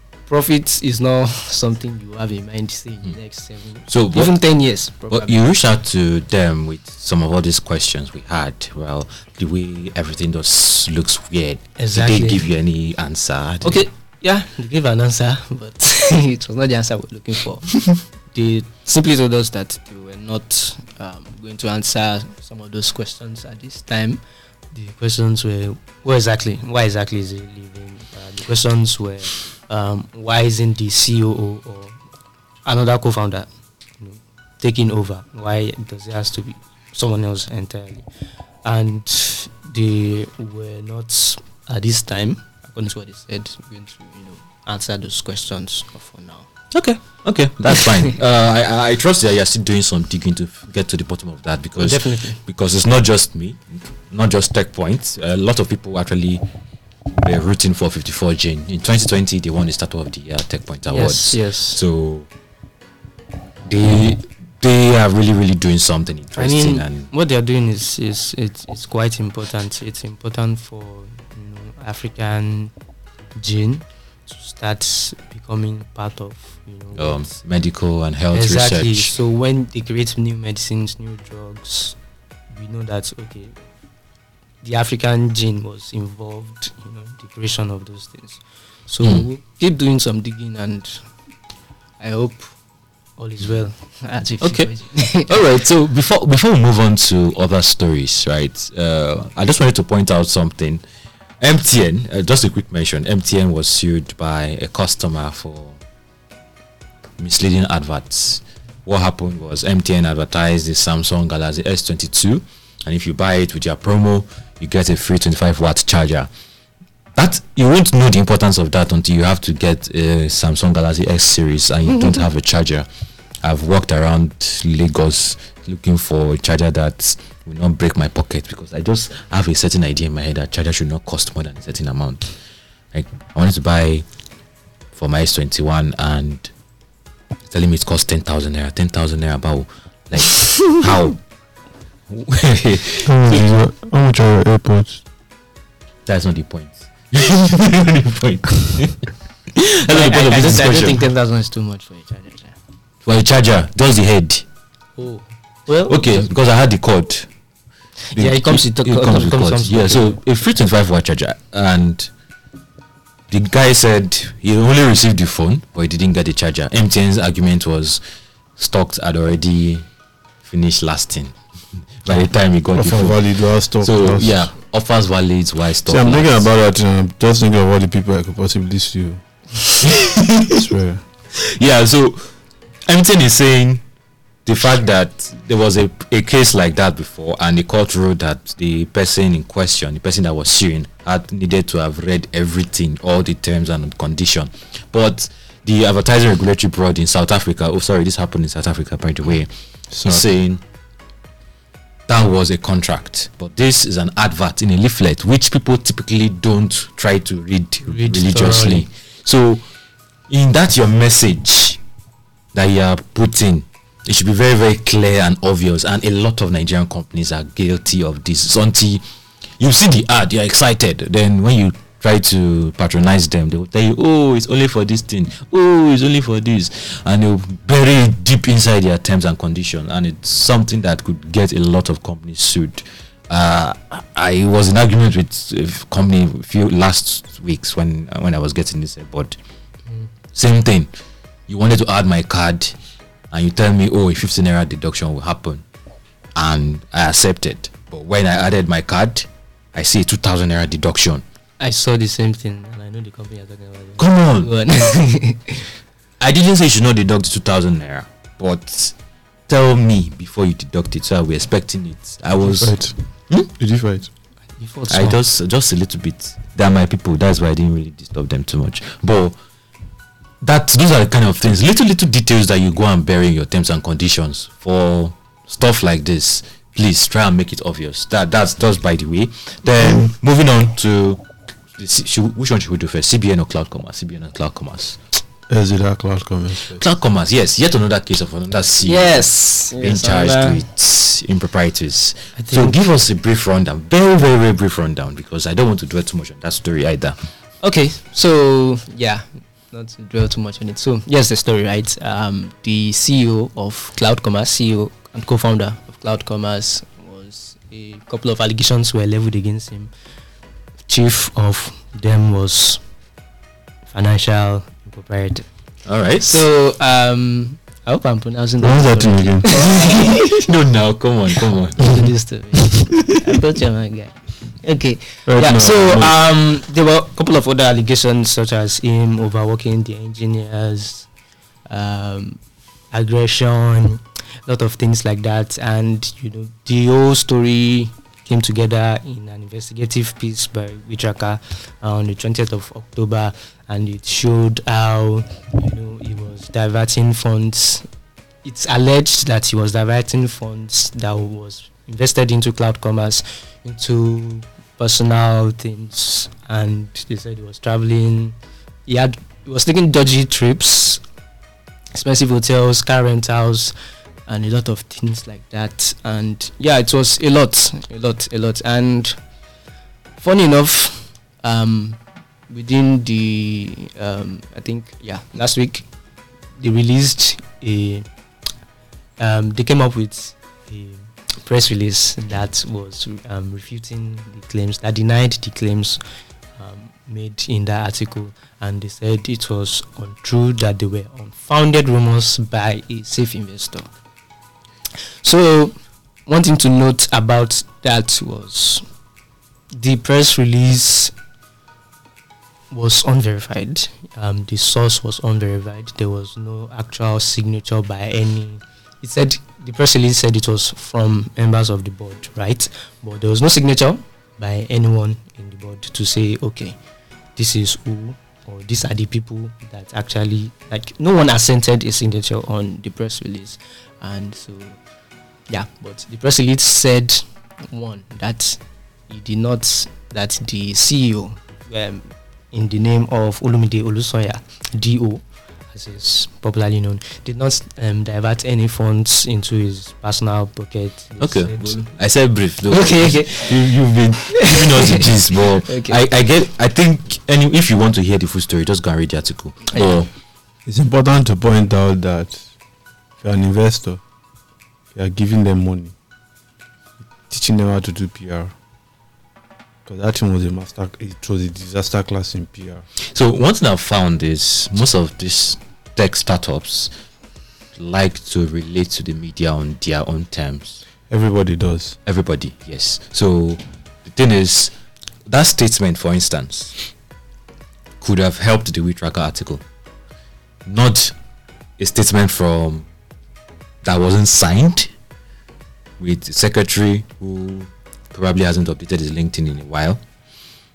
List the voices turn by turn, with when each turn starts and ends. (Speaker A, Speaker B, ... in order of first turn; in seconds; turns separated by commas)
Speaker A: 0.3-5.4, Speaker B: 3.9-4.3, Speaker B: 5.1-13.8, Speaker A: 11.8-12.4, Speaker A: 13.6-32.0, Speaker A: 32.6-38.1, Speaker A: 38.6-46.5, Speaker B: 46.7-56.5, Speaker A: 51.8-52.4, Speaker B: 57.1-62.3, Speaker A: 60.9-61.8, Speaker B: 63.6-67.1, Speaker A: 66.4-72.7, Speaker A: 73.4-77.4, Speaker B: 77.0-79.2, Speaker A: 78.3-82.0, Speaker A: 82.5-83.6, Speaker A: 84.6-91.1, Speaker A: 92.0-92.6, Speaker A: 93.2-95.3, Speaker B: 94.4-100.8, Speaker B: 101.4-105.8, Speaker B: 107.2-116.3, Speaker B: 117.2-122.9, Speaker B: 123.4-132.3, Speaker B: 132.9-134.1, Speaker B: 134.9-136.5, Speaker B: 137.5-141.2, Speaker B: 142.1-143.5, Speaker C: 143.0-145.0, Speaker B: 146.1-151.1, Speaker A: 149.9-152.6, Speaker B: 153.0-154.5, Speaker A: 155.0-156.2, Speaker B: 155.9-157.3, Speaker A: 158.1-160.2, Speaker B: 158.2-162.1, Speaker B: 163.3-168.0, Speaker B: 168.6-169.9, Speaker B: 170.4-176.5, Speaker C: 172.7-174.5, Speaker C: 175.9-179.7, Speaker B: 180.0-180.6, Speaker C: 180.5-181.0, Speaker B: 181.4-182.3, Speaker B: 182.9-183.8, Speaker B: 184.5-199.5, Speaker C: 199.9-200.3, Speaker B: 200.0-200.6, Speaker B: 202.1-209.7, Speaker A: 207.9-208.9, Speaker B: 210.3-211.8, Speaker B: 212.5-219.0, Speaker B: 219.6-239.4, Speaker B: 240.3-240.9, Speaker B: 241.5-242.8, Speaker B: 243.3-245.6, Speaker B: 246.4-251.2, Speaker A: 251.6-255.7, Speaker B: 254.0-254.5, Speaker B: 256.2-259.0, Speaker B: 259.5-263.5, Speaker C: 262.5-264.1, Speaker A: 264.5-265.2, Speaker B: 264.9-269.4, Speaker B: 270.4-281.2, Speaker B: 281.8-285.0, Speaker C: 285.5-286.8, Speaker B: 286.7-297.2, Speaker A: 288.8-290.6, Speaker A: 292.4-292.8, Speaker A: 297.6-309.9, Speaker A: 310.9-312.8, Speaker A: 313.9-315.5, Speaker B: 315.9-316.5, Speaker A: 316.2-320.5, Speaker C: 318.6-319.9, Speaker B: 320.4-322.0, Speaker A: 321.8-331.1, Speaker C: 325.3-326.2, Speaker A: 331.7-332.4, Speaker A: 332.9-347.9, Speaker A: 348.4-361.0, Speaker A: 361.9-363.8, Speaker A: 364.3-369.2, Speaker A: 370.2-375.9, Speaker A: 376.6-378.1, Speaker A: 379.2-386.0, Speaker A: 386.6-393.9, Speaker A: 395.2-398.9, Speaker A: 399.7-401.1, Speaker A: 402.7-416.8, Speaker A: 417.4-424.8, Speaker A: 425.5-441.9, Speaker B: 441.2-450.1, Speaker A: 442.7-446.0, Speaker A: 449.7-450.1, Speaker C: 450.7-452.5, Speaker C: 453.2-454.0, Speaker C: 454.9-455.9, Speaker C: 457.3-458.5, Speaker C: 459.9-462.9, Speaker B: 463.1-466.9, Speaker B: 467.8-470.8, Speaker C: 471.1-472.0, Speaker B: 472.1-474.7, Speaker B: 475.3-476.8, Speaker B: 478.0-479.6, Speaker B: 480.6-481.1, Speaker B: 481.8-482.9, Speaker B: 483.8-484.9, Speaker B: 486.0-490.0